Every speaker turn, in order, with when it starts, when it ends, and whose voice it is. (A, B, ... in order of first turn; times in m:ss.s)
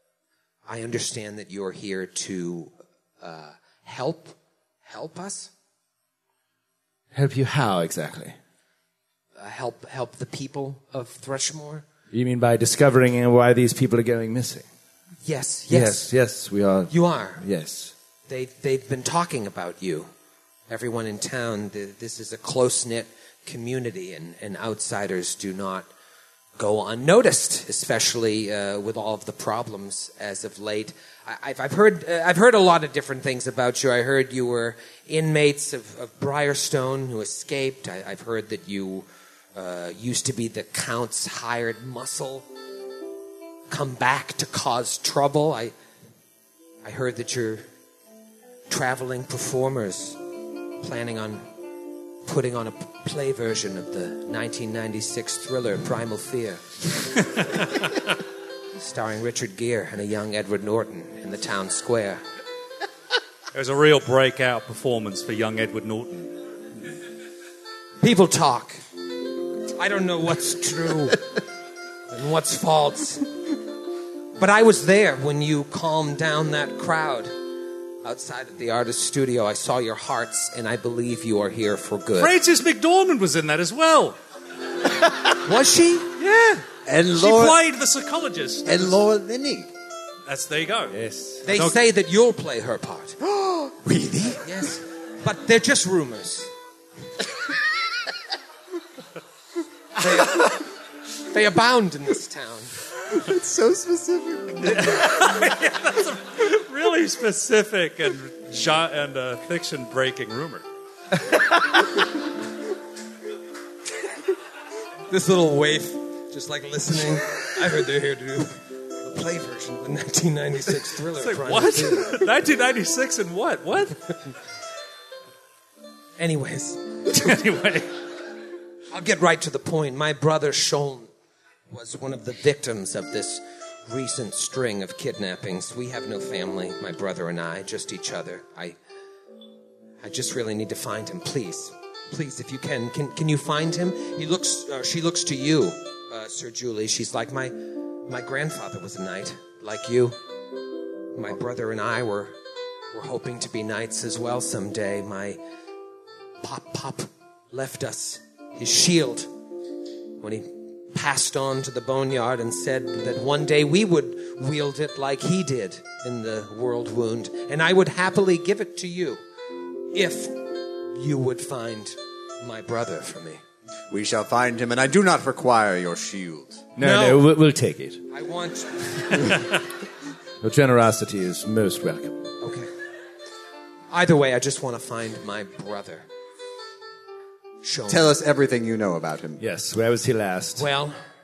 0:00.7-0:05.5 A
0:07.1-0:08.3 B
0:09.4-0:11.8 A
0:12.1-0:14.6 B
0:15.2-0:16.1 A
0:15.7-0:17.9 B
0:16.9-0:17.4 A
0:18.3-0:20.1 A
0:20.7-0:25.9 A
0:26.6-0:42.4 A
0:43.7-0:45.7 A
0:46.8-0:47.6 A
0:48.7-0:50.2 A
0:50.8-0:51.4 A
0:52.2-0:56.6 A
0:58.8-1:02.2 A
1:03.5-1:06.3 C
1:08.0-1:08.8 A
1:09.8-1:11.2 A
1:12.1-1:13.3 A
1:14.4-1:17.3 A
1:18.0-1:22.3 A
1:22.2-1:24.2 C
1:25.4-1:26.1 A
1:26.2-1:26.6 C
1:26.8-1:27.6 D
1:27.1-1:28.8 C
1:28.6-1:29.7 D
1:30.3-1:30.9 C
1:30.9-1:31.4 B
1:31.4-1:33.2 A
1:31.5-1:31.8 C
1:33.2-1:34.6 D
1:34.4-1:36.5 A
1:40.0-1:40.6 A
1:41.3-1:42.7 A
1:43.1-1:44.8 D
1:44.6-1:50.6 C
1:55.1-2:02.3 A
2:01.2-2:04.0 C
2:06.2-2:06.9 A
2:07.1-2:07.9 C
2:08.9-2:11.1 A
2:11.7-2:18.8 A
2:20.0-2:30.2 A
2:31.1-2:32.3 A
2:32.9-2:35.4 A
2:36.4-2:39.3 A
2:40.2-2:49.2 A
2:49.9-2:53.4 A
2:53.9-2:56.6 D
2:56.8-2:58.0 B
2:56.8-2:57.2 A
2:58.1-2:59.3 A
3:00.4-3:02.2 B
3:02.4-3:02.7 A
3:03.9-3:06.1 A
3:07.6-3:08.1 A
3:07.9-3:09.4 D
3:09.4-3:10.7 B
3:10.6-3:11.0 A